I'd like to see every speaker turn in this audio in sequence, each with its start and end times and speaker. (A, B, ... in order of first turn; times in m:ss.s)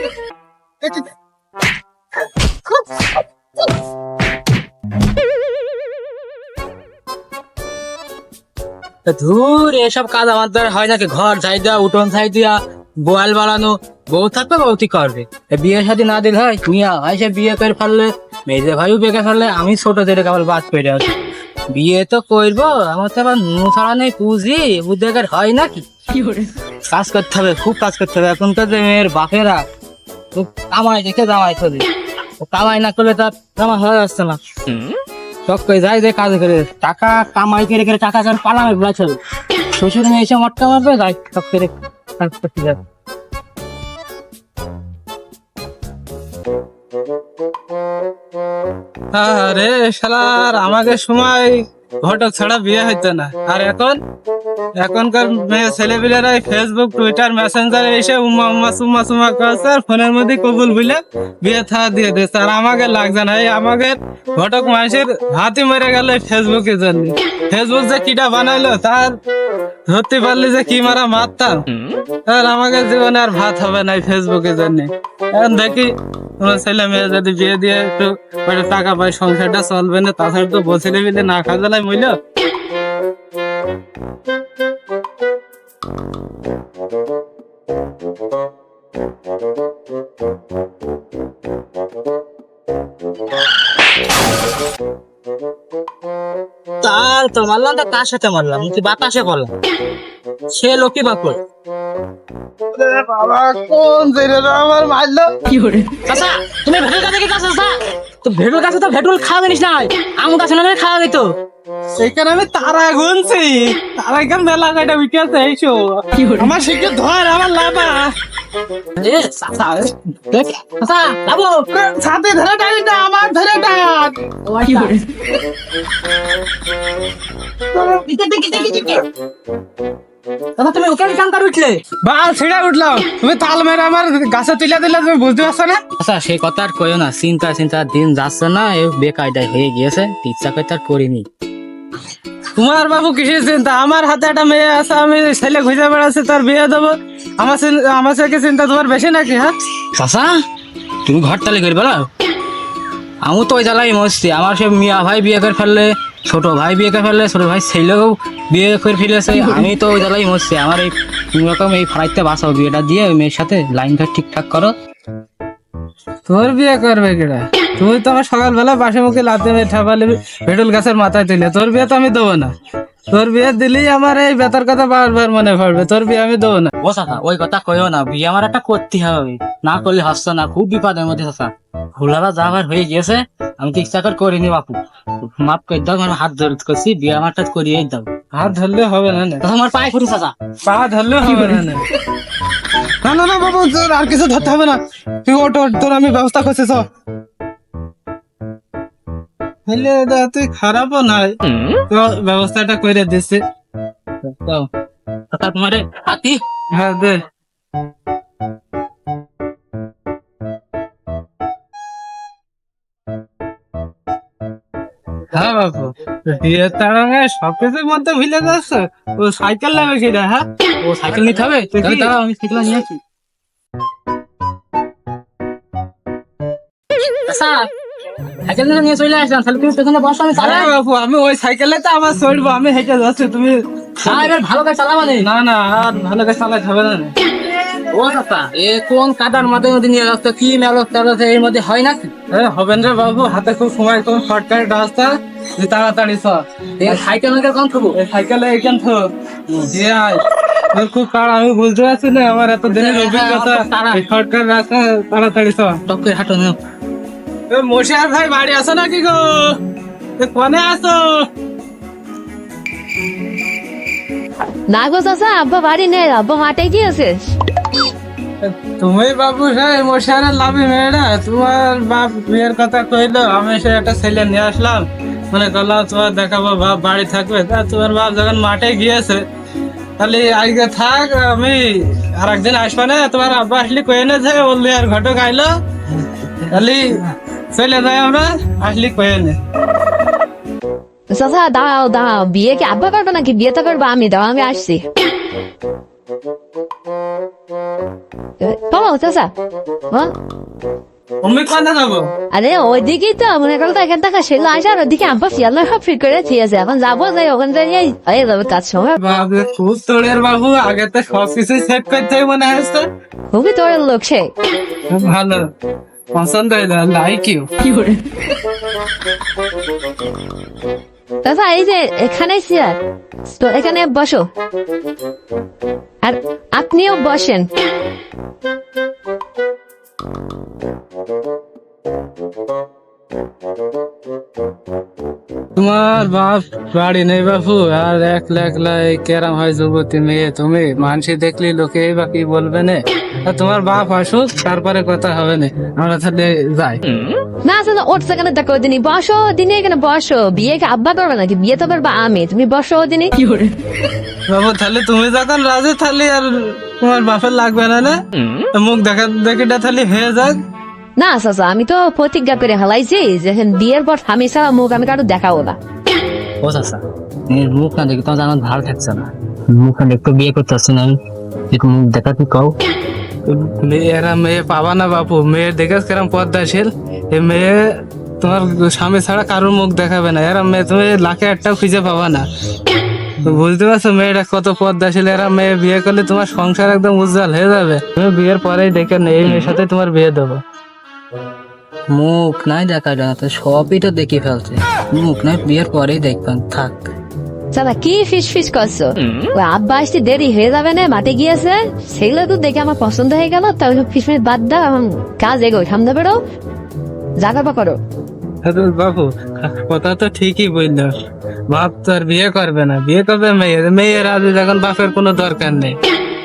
0:09.0-0:21.1 A
0:21.7-0:25.8 A
0:26.8-0:29.6 A
0:30.3-0:31.8 A
0:32.4-0:34.4 A
0:35.4-0:39.2 A
0:39.7-0:42.8 A
0:49.1-0:54.0 B
0:54.8-1:09.2 B
1:09.9-1:11.6 B
1:12.2-1:22.2 B
1:36.8-1:39.5 A
1:40.5-1:41.4 A
1:42.7-1:45.3 B
1:46.0-1:51.3 A
1:52.0-1:58.1 B
1:59.0-2:01.7 A
2:01.7-2:04.2 B
2:04.4-2:05.0 A
2:07.8-2:09.0 A
2:10.6-2:11.8 A
2:12.0-2:15.8 B
2:16.0-2:21.2 A
2:22.6-2:29.5 B
2:29.9-2:30.4 A
2:31.0-2:32.1 A
2:33.2-2:44.7 A
2:46.2-2:52.5 B
2:53.1-2:56.7 B
2:56.8-3:08.1 A
3:08.3-3:09.4 B
3:09.4-3:10.3 A
3:10.6-3:11.8 B
3:13.0-3:16.8 B
3:19.7-3:23.4 B
3:24.2-3:24.7 A
3:25.3-3:26.4 A
3:26.7-3:27.2 B
3:35.3-3:40.4 B
3:40.8-3:43.0 A
3:41.1-3:42.1 B
3:47.2-3:47.7 A
3:48.4-3:50.7 A
3:50.3-3:54.3 B
3:54.0-3:55.3 A
3:55.2-3:57.1 B
3:57.9-4:02.1 A
4:02.3-4:07.0 B
4:06.8-4:08.0 A
4:07.9-4:09.1 B
4:09.5-4:09.8 A
4:09.7-4:10.2 B
4:10.7-4:15.8 B
4:12.7-4:14.0 A
4:15.9-4:16.6 A
4:17.5-4:19.6 B
4:20.2-4:21.3 B
4:24.7-4:27.3 C
4:28.4-4:39.2 B
4:40.0-4:45.5 B
4:46.4-4:47.0 B
4:47.5-4:49.4 B
4:51.1-4:54.8 C
4:58.4-4:59.3 C
5:01.2-5:02.1 B
5:02.3-5:09.0 C
5:09.0-5:12.9 B
5:13.3-5:14.3 C
5:14.9-5:15.4 B
5:16.1-5:17.5 B
5:21.2-5:24.3 C
5:26.0-5:27.5 C
5:35.6-5:46.8 B
5:47.4-5:53.2 C
5:54.3-5:58.0 B
5:58.5-6:00.4 B
6:01.0-6:05.6 C
6:06.4-6:11.0 A
6:11.5-6:12.5 A
6:13.2-6:17.6 B
6:18.2-6:22.2 B
6:23.2-6:30.4 B
6:31.9-6:36.9 A
6:37.5-6:46.2 C
6:47.2-6:47.8 C
6:48.4-6:50.9 B
6:51.5-6:55.8 B